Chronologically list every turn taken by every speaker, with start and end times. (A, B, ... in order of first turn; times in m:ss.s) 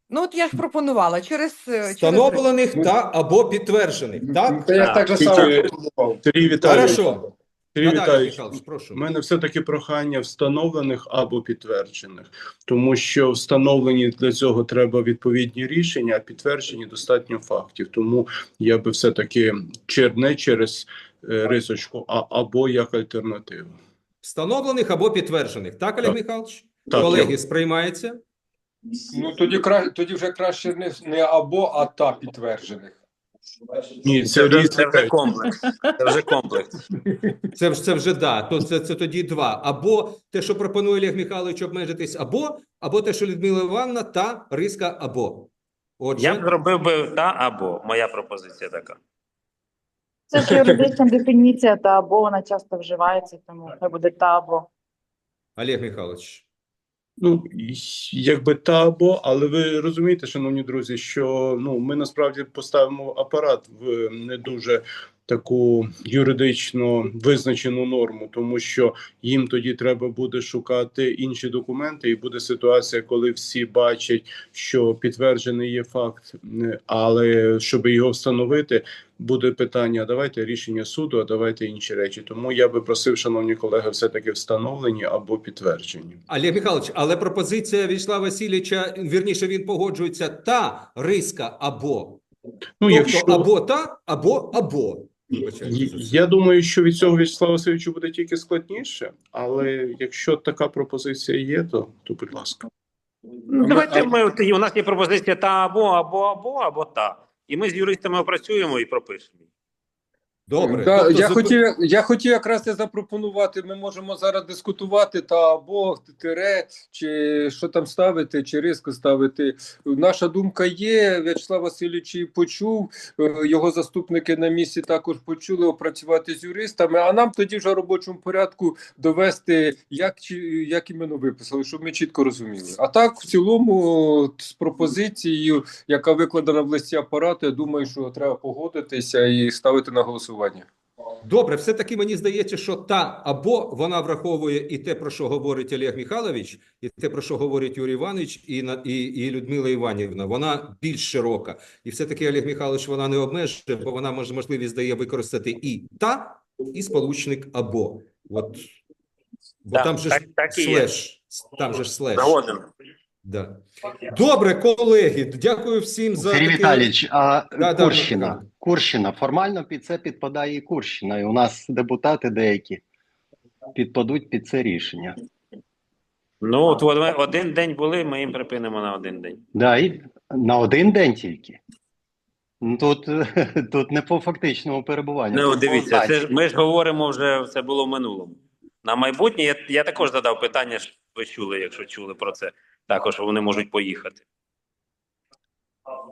0:00.1-0:02.5 A
0:01.9-0:04.6 B
0:04.3-0:07.0 C
0:04.8-0:05.5 D
0:06.2-0:07.1 E
0:06.6-0:07.2 B
0:07.8-0:23.8 E
0:07.8-0:09.0 B
0:24.2-0:28.2 B
0:26.9-0:27.3 E
0:29.1-0:33.0 C
0:34.0-0:35.1 E
0:34.2-0:36.8 D
0:37.6-0:46.5 B
0:46.2-0:49.0 D
0:50.3-0:54.7 F
0:55.6-0:56.4 B
0:57.2-1:26.2 E
1:26.3-1:32.2 B
1:32.8-1:33.5 E
1:32.8-1:36.1 B
1:35.6-1:42.6 E
1:43.5-1:49.4 D
1:43.6-1:44.1 C
1:50.5-1:51.5 B
1:50.6-2:20.7 C
2:21.2-2:38.7 B
2:39.6-2:42.4 B
2:39.7-2:40.9 D
2:42.2-2:42.7 D
2:43.2-2:46.9 B
2:46.2-2:52.8 G
2:47.6-2:48.5 B
2:53.8-2:55.2 G
2:56.4-2:59.4 D
2:59.6-3:01.6 G
3:02.6-3:06.3 G
3:05.3-3:14.2 D